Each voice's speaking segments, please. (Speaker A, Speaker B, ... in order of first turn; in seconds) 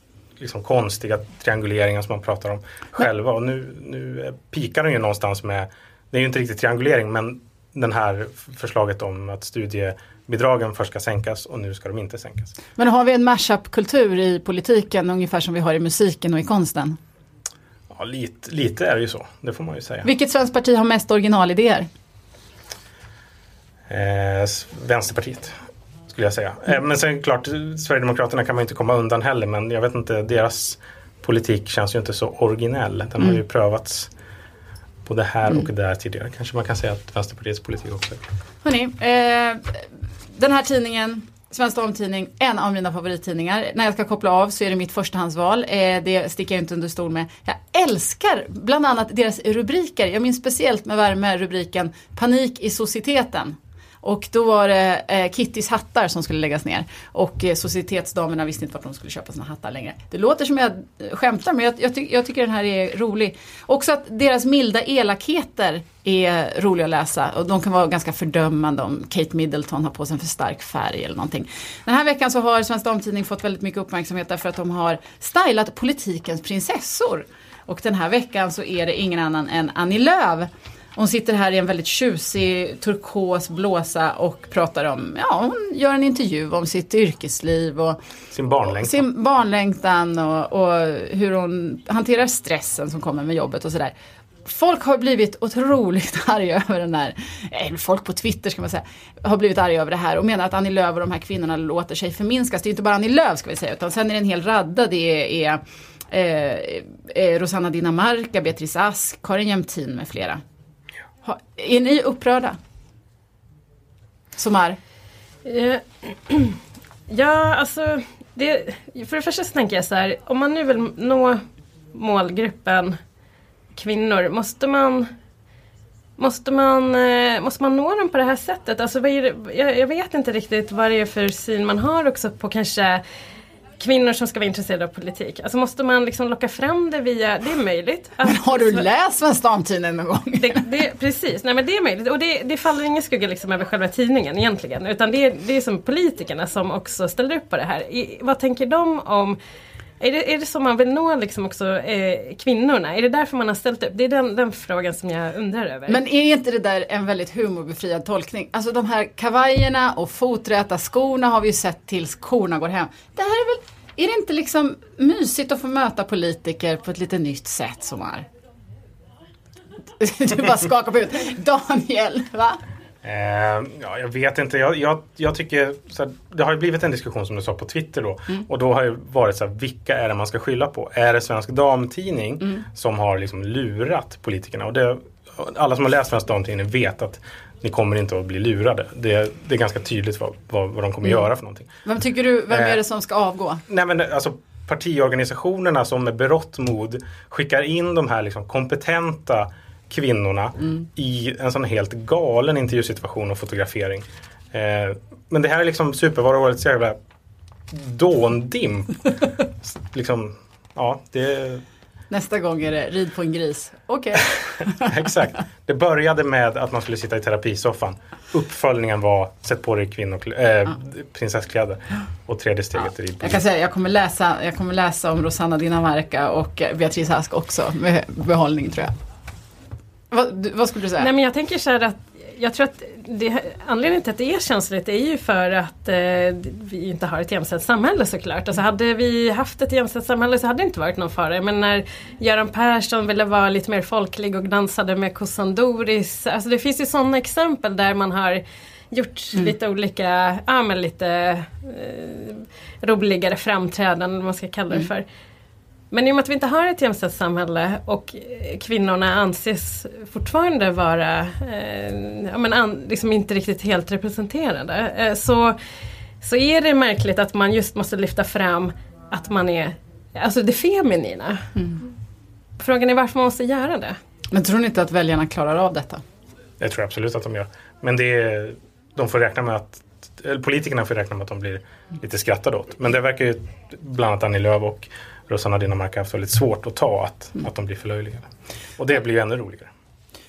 Speaker A: 0.4-12.5, 17.9-20.1, 23.9-25.5, 26.1-34.1, 35.0-38.2, 88.3-89.0, 173.0-191.7, 192.5-192.8, 193.7-207.0, 207.7-211.6, 214.8-223.4, 276.6-288.3, 288.8-289.7
Speaker B: 12.8-17.0, 20.0-21.9, 38.6-88.0, 88.7-93.9, 94.4-110.4, 111.2-112.6, 114.4-114.8, 138.2-140.6, 155.9-168.2, 170.0-172.6, 191.8-193.6, 212.1-214.9, 223.2-229.0, 230.1-231.1, 274.3-276.0
Speaker C: 115.4-116.5, 117.1-121.4, 121.9-123.0, 123.7-125.1, 126.2-133.0, 133.8-138.8, 140.4-149.4, 150.0-156.0, 231.0-255.1, 255.9-265.6, 266.2-271.5, 272.6-274.0